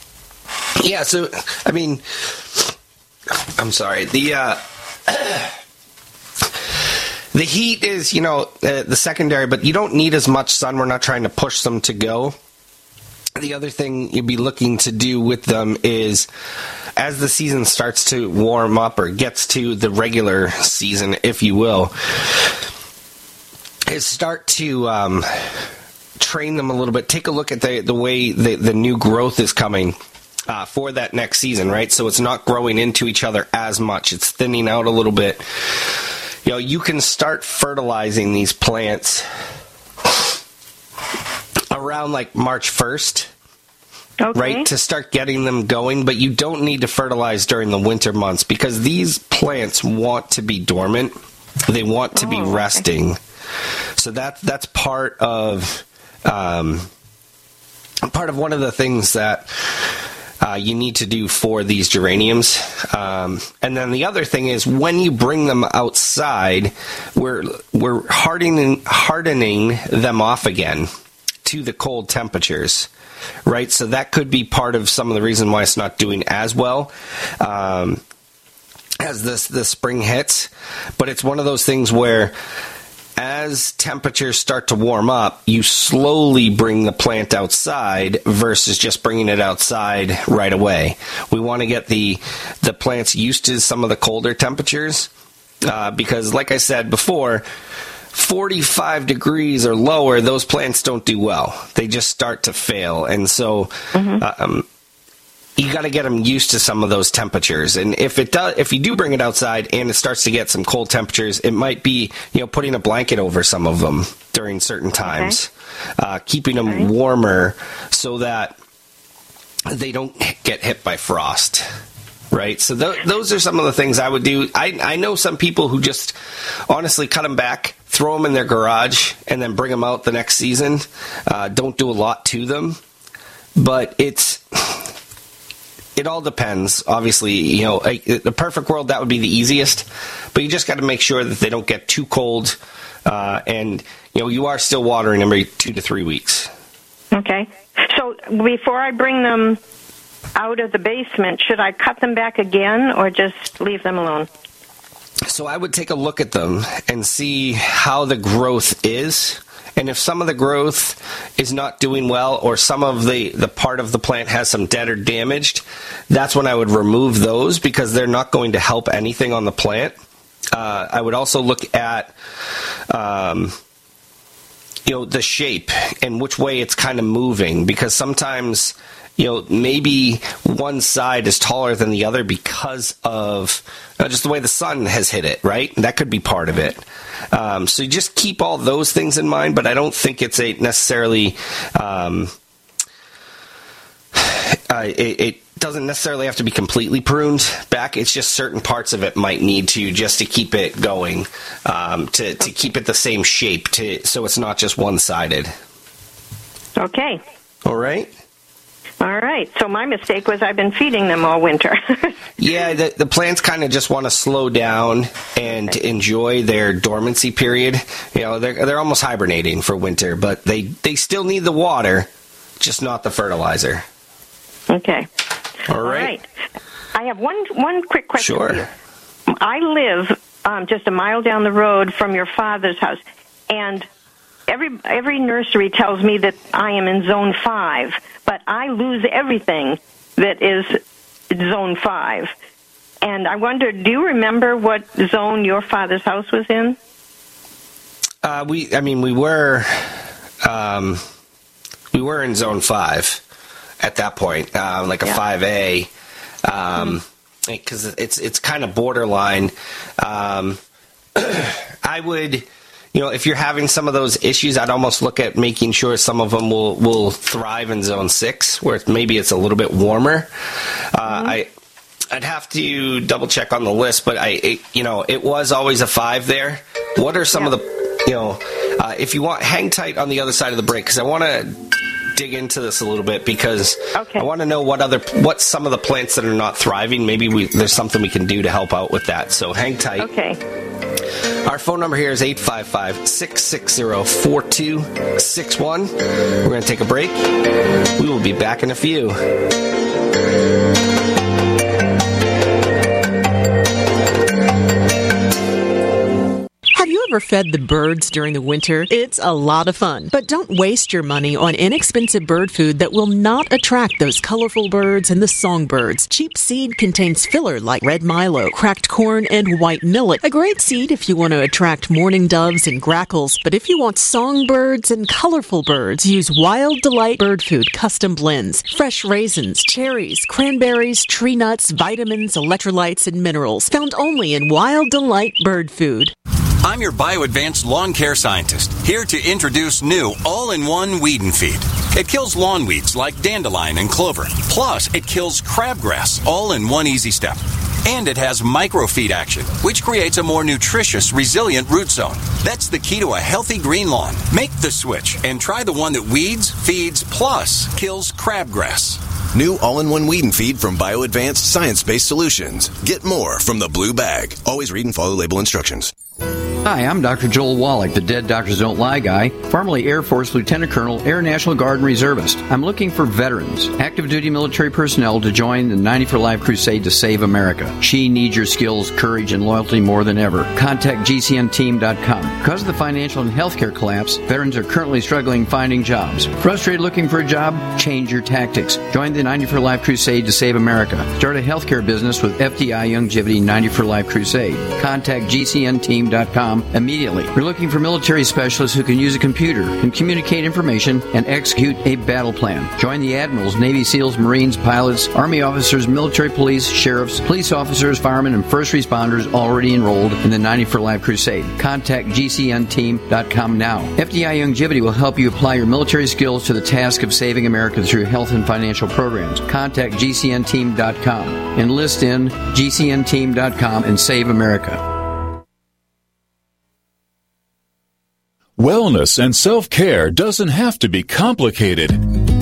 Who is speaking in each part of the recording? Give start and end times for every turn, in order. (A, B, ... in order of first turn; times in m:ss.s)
0:00.8-0:02.7 A
0:03.6-0:05.5 A
0:07.3-0:12.4 A
0:13.4-0:16.3 A
0:17.0-0:22.5 A
0:23.9-0:30.0 A
0:30.5-0:35.9 A
0:36.4-0:39.2 A
0:41.7-0:43.3 A
0:44.2-0:44.7 B
0:44.3-0:53.2 A
0:52.2-0:52.8 B
0:54.0-0:56.9 A
0:58.0-0:59.9 A
1:00.4-1:10.9 A
1:11.4-1:12.9 A
1:13.4-1:18.0 A
1:19.0-1:22.3 A
1:23.2-1:35.1 A
1:35.6-1:37.4 A
1:38.1-1:44.6 A
1:43.9-1:44.2 B
1:45.6-1:58.6 A
1:55.0-1:55.3 B
1:59.7-2:01.6 A
2:02.3-2:06.2 A
2:06.7-2:12.8 A
2:13.6-2:14.9 A
2:16.0-2:26.5 A
2:27.1-2:29.6 B
2:30.4-2:34.3 B
2:35.3-2:50.0 A
2:50.5-2:52.2 A
2:52.9-2:53.6 A
2:54.8-3:12.3 A
3:14.1-3:25.5 A
3:26.8-3:27.2 B
3:27.6-3:28.1 A
3:29.0-3:32.1 B
3:32.4-3:42.1 A
3:42.6-3:43.8 A
3:44.7-3:45.1 B
3:45.7-3:46.1 A
3:45.8-3:46.2 B
3:46.9-3:48.7 B
3:48.2-3:48.7 A
3:49.3-3:53.9 B
3:54.5-4:00.8 B
4:01.3-4:02.3 B
4:03.0-4:06.8 B
4:08.2-4:11.0 A
4:11.9-4:13.2 A
4:13.8-4:15.9 A
4:16.4-4:20.6 A
4:21.2-4:30.3 A
4:30.9-4:31.5 A
4:31.0-4:31.4 B
4:32.1-4:41.6 A
4:42.1-4:50.1 A
4:43.9-4:44.2 B
4:50.0-4:50.4 B
4:51.4-4:57.3 A
4:58.0-4:59.2 A
5:06.7-5:36.1 C
5:36.6-5:59.0 D
5:59.3-6:05.9 E
6:06.6-7:04.8 F
7:08.6-7:12.0 G